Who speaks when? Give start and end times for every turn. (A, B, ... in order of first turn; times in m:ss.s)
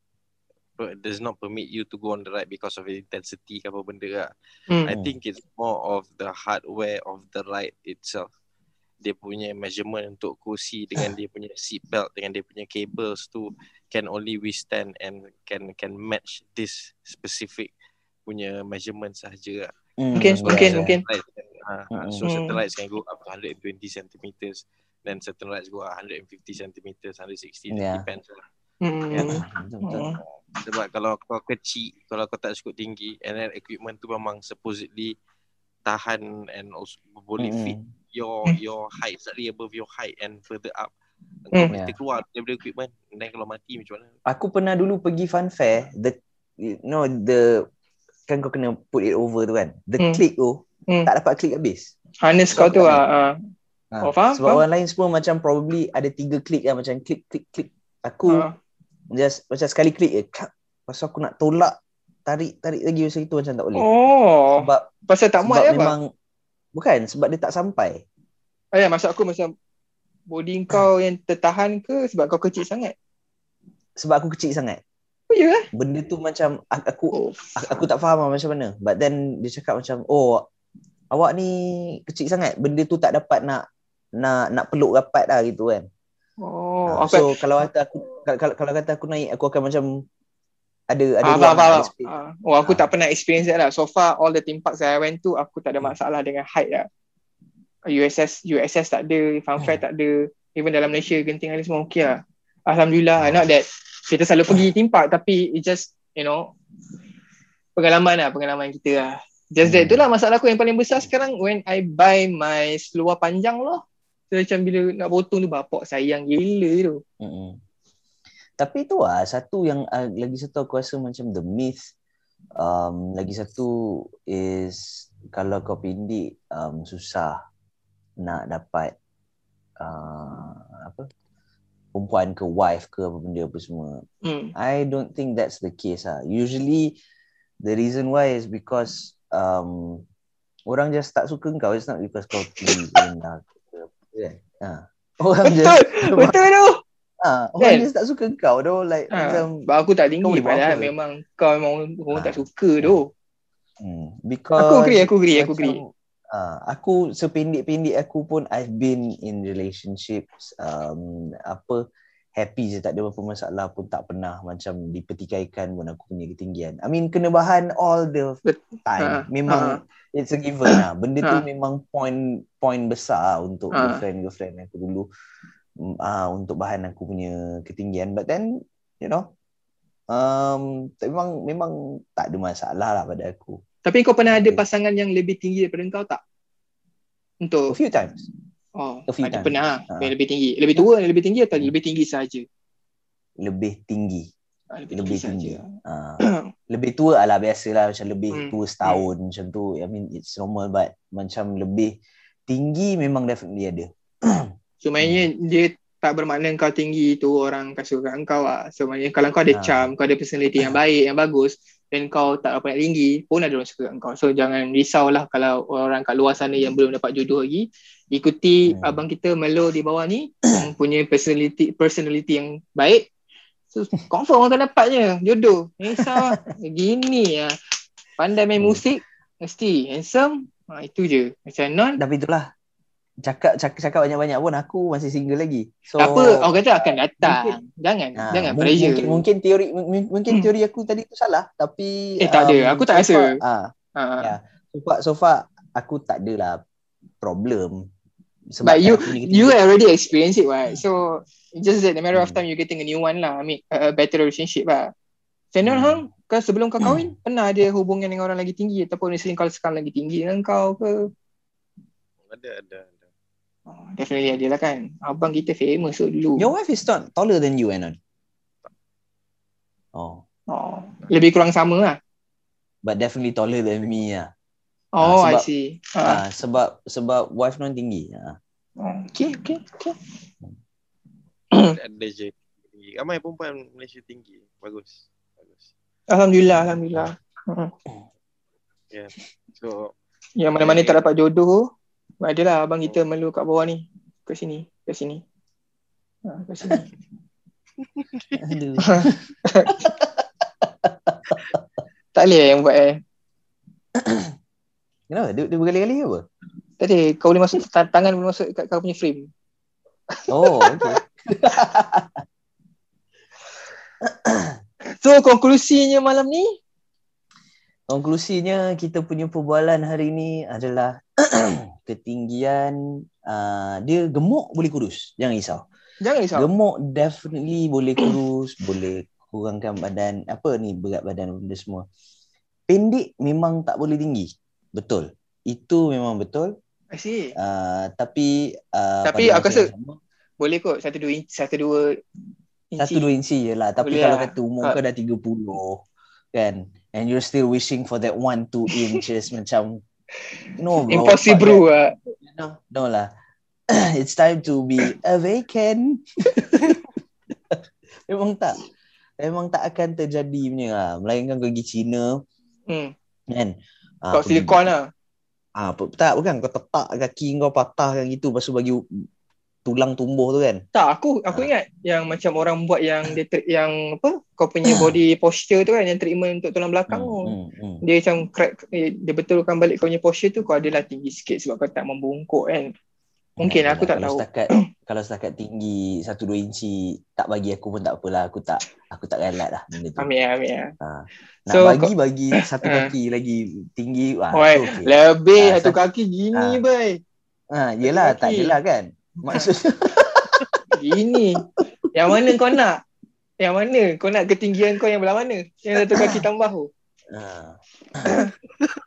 0:00.8-0:04.3 A
0:04.8-0:08.3 A
0:04.9-0:05.1 B
0:09.0-0:17.7 A
0:18.2-0:19.7 A
0:20.0-0:21.0 B
0:20.2-0:21.0 C
0:20.4-0:28.4 A
0:21.9-0:22.2 B
0:22.2-0:22.5 C
0:27.7-0:28.0 B
0:28.8-0:30.2 C
0:29.1-0:30.2 B
0:30.6-0:35.1 A
0:35.8-0:40.9 A
0:37.4-0:37.8 B
0:41.4-0:44.2 A
0:44.2-0:47.7 B
0:48.3-0:51.9 B
0:52.2-0:53.4 C
0:52.5-0:53.0 B
0:53.9-0:58.5 B
0:54.0-0:54.6 C
0:58.2-0:58.5 C
0:59.1-1:03.9 B
1:03.7-1:05.9 C
1:04.5-1:04.9 B
1:05.4-1:06.1 B
1:06.7-1:08.0 B
1:08.7-1:09.5 C
1:10.3-1:12.9 C
1:14.0-1:14.8 B
1:15.3-1:15.6 C
1:15.7-1:20.4 B
1:17.1-1:17.8 C
1:21.1-1:23.6 B
1:24.2-1:25.9 B
1:26.4-1:27.7 C
1:26.9-1:30.0 B
1:30.9-1:32.9 B
1:31.2-1:36.9 C
1:37.9-1:46.5 C
1:43.2-1:43.5 B
1:47.8-1:57.0 C
1:49.6-1:50.0 B
1:57.2-1:57.6 B
1:58.6-2:01.8 B
2:02.6-2:07.4 B
2:08.2-2:08.9 B
2:09.8-2:11.1 B
2:11.9-2:14.0 B
2:14.2-2:14.5 C
2:14.6-2:17.0 B
2:17.6-2:20.0 B
2:20.7-2:26.4 B
2:22.5-2:23.0 C
2:25.4-2:26.8 C
2:27.2-2:29.6 B
2:27.6-2:27.9 C
2:29.1-2:33.1 C
2:30.2-2:30.9 B
2:32.1-2:33.0 B
2:33.8-2:41.8 B
2:34.6-2:35.8 C
2:42.3-2:55.1 B
2:48.4-2:49.8 C
2:50.7-2:51.4 C
2:53.7-2:54.0 C
2:55.8-2:59.3 B
3:00.1-3:03.6 B
3:03.8-3:06.2 C
3:04.3-3:04.6 B
3:07.4-3:07.7 C
3:07.7-3:08.2 B
3:08.8-3:12.4 C
3:09.1-3:10.1 B
3:13.4-3:14.3 B
3:14.7-3:15.7 C
3:14.9-3:21.9 B
3:16.2-3:16.5 C
3:18.3-3:19.1 C
3:22.5-3:25.3 B
3:24.8-3:43.0 C
3:29.5-3:29.9 B
3:38.7-3:39.0 B
3:43.7-3:47.5 C
3:46.0-3:46.2 B
3:48.2-3:52.0 C
3:52.0-3:52.5 B
3:53.2-3:56.5 B
3:56.0-3:59.2 C
3:57.2-3:57.6 B
3:58.2-4:06.6 B
4:02.2-4:03.4 C
4:04.0-4:04.3 C
4:07.2-4:07.8 B
4:08.5-4:09.6 B
4:08.6-4:14.9 C
4:12.1-4:12.4 B
4:15.5-4:21.1 C
4:15.6-4:16.0 B
4:16.8-4:17.1 B
4:22.2-4:23.1 A
4:23.7-4:26.5 C
4:26.4-4:28.0 B
4:29.9-4:30.2 B
4:30.5-4:32.0 C
4:32.8-4:34.3 B
4:35.0-4:36.2 C
4:35.0-4:35.5 B
4:36.0-4:38.4 B
4:38.8-4:39.9 C
4:41.7-4:45.7 A
4:46.1-4:47.7 C
4:48.9-4:49.9 A
4:50.4-4:51.6 C
4:50.6-4:51.0 A
4:52.2-4:55.2 C
4:56.3-4:56.9 C
4:57.8-4:58.6 A
4:58.4-5:01.6 B
4:58.8-4:59.8 C
5:02.1-5:03.0 C
5:04.0-5:04.3 B
5:05.1-5:06.2 B
5:06.8-5:09.3 C
5:10.3-5:12.2 B
5:10.4-5:11.0 C
5:14.0-5:14.6 B
5:15.0-5:16.5 C
5:17.9-5:25.6 B
5:26.0-5:26.5 C
5:26.4-5:31.8 B
5:32.7-5:36.5 B
5:36.9-5:37.3 C
5:37.4-5:40.0 B
5:39.0-5:39.7 C
5:40.4-5:42.0 C
5:42.7-5:43.1 C
5:42.8-5:49.8 B
5:43.8-5:44.8 C
5:48.7-5:49.0 C
5:50.6-5:51.6 B
5:50.9-5:51.9 C
5:52.2-5:53.1 B
5:53.7-5:56.8 B
5:56.6-5:56.8 C
5:57.4-5:58.6 B
5:59.2-6:02.1 B
6:03.3-6:04.7 B
6:04.1-6:04.9 C
6:05.6-6:08.8 B
6:09.6-6:10.6 B
6:10.7-6:22.7 C
6:14.7-6:15.0 B
6:16.9-6:17.8 B
6:23.4-6:30.1 B
6:23.4-6:24.6 C
6:30.0-6:30.7 C
6:30.8-6:35.8 B
6:31.5-6:32.9 C
6:34.3-6:37.0 C
6:36.3-6:36.6 B
6:37.5-6:40.6 B
6:37.8-6:38.6 C
6:40.7-6:42.8 C
6:42.1-6:42.6 B
6:43.4-6:46.7 C
6:45.8-6:46.2 B
6:47.1-6:48.2 B
6:48.0-6:48.3 C